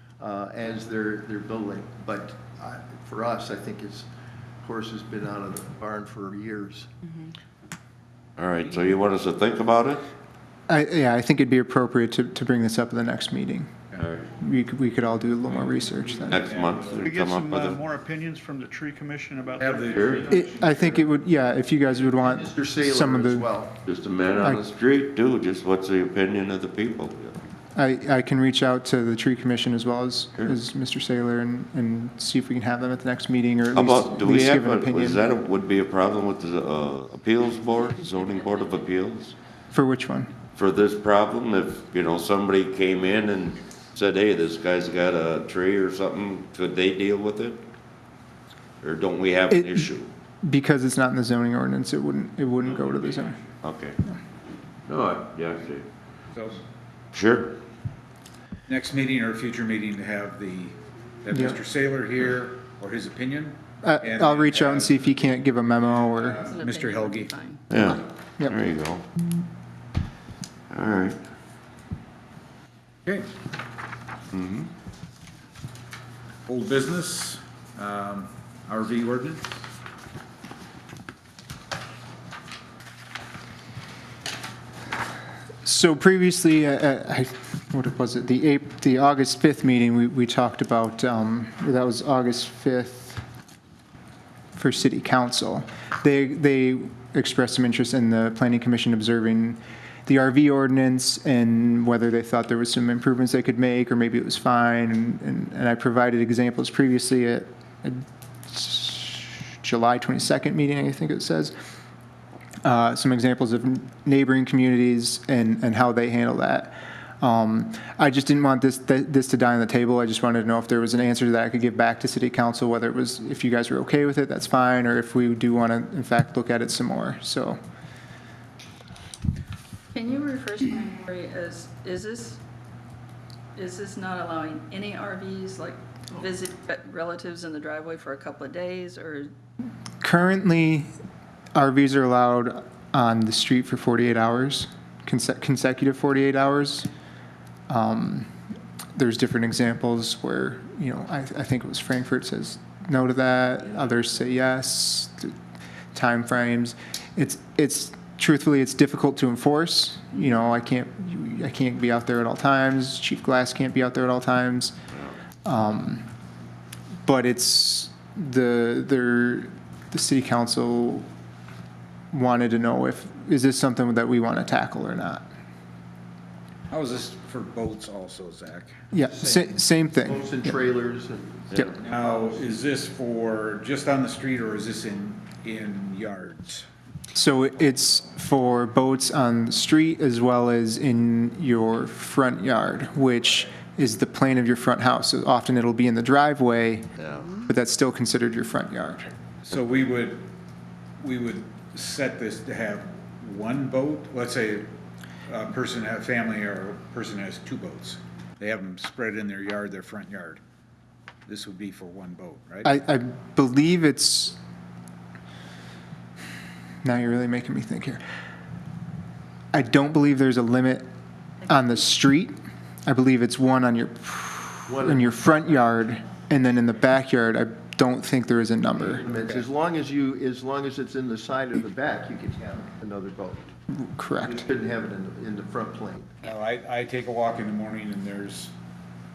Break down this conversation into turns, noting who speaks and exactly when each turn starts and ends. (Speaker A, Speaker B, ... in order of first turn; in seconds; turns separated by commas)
Speaker A: 0.2-4.1, Speaker A: 4.6-6.9, Speaker B: 8.4-10.1, Speaker C: 10.7-16.4, Speaker B: 14.0-14.3, Speaker D: 16.2-17.0, Speaker B: 16.3-17.8, Speaker E: 17.0-20.5, Speaker D: 19.6-20.7, Speaker B: 19.9-20.3, Speaker C: 20.3-23.6, Speaker A: 22.2-23.8, Speaker B: 23.8-27.4, Speaker C: 27.7-35.3, Speaker B: 33.7-39.3, Speaker C: 39.7-40.3, Speaker B: 40.5-47.6, Speaker B: 48.8-50.1, Speaker C: 49.5-49.9, Speaker C: 50.4-53.4, Speaker D: 52.6-53.5, Speaker B: 53.6-54.0, Speaker B: 54.9-55.9, Speaker D: 56.3-56.6, Speaker B: 57.1-57.6, Speaker D: 58.7-65.3, Speaker C: 61.3-61.6, Speaker C: 63.8-66.5, Speaker D: 66.0-67.3, Speaker F: 66.4-67.6, Speaker B: 67.7-69.0, Speaker C: 67.7-68.6, Speaker B: 70.7-71.2, Speaker B: 74.3-74.7, Speaker D: 76.5-79.5, Speaker C: 85.6-93.2, Speaker C: 94.5-111.5, Speaker C: 112.6-127.6, Speaker F: 129.9-132.4, Speaker F: 133.6-139.3, Speaker C: 140.0-140.9, Speaker C: 141.5-146.9, Speaker C: 147.7-148.3, Speaker C: 148.9-155.3, Speaker C: 155.9-164.7, Speaker C: 165.4-166.1, Speaker C: 167.1-171.1, Speaker C: 172.1-175.2, Speaker D: 176.7-178.8, Speaker C: 178.9-180.6, Speaker A: 179.1-182.4, Speaker B: 181.5-181.8, Speaker D: 181.8-186.7, Speaker C: 187.1-199.1, Speaker B: 197.0-197.3, Speaker D: 199.4-200.3, Speaker D: 201.0-204.7, Speaker D: 205.3-210.4, Speaker D: 211.3-212.7, Speaker C: 212.6-214.4, Speaker C: 216.8-218.0, Speaker C: 219.5-220.9, Speaker C: 221.5-229.1, Speaker A: 224.7-225.3, Speaker A: 228.8-233.5, Speaker D: 229.2-229.4, Speaker C: 233.7-234.4, Speaker A: 234.2-236.1, Speaker D: 236.2-238.5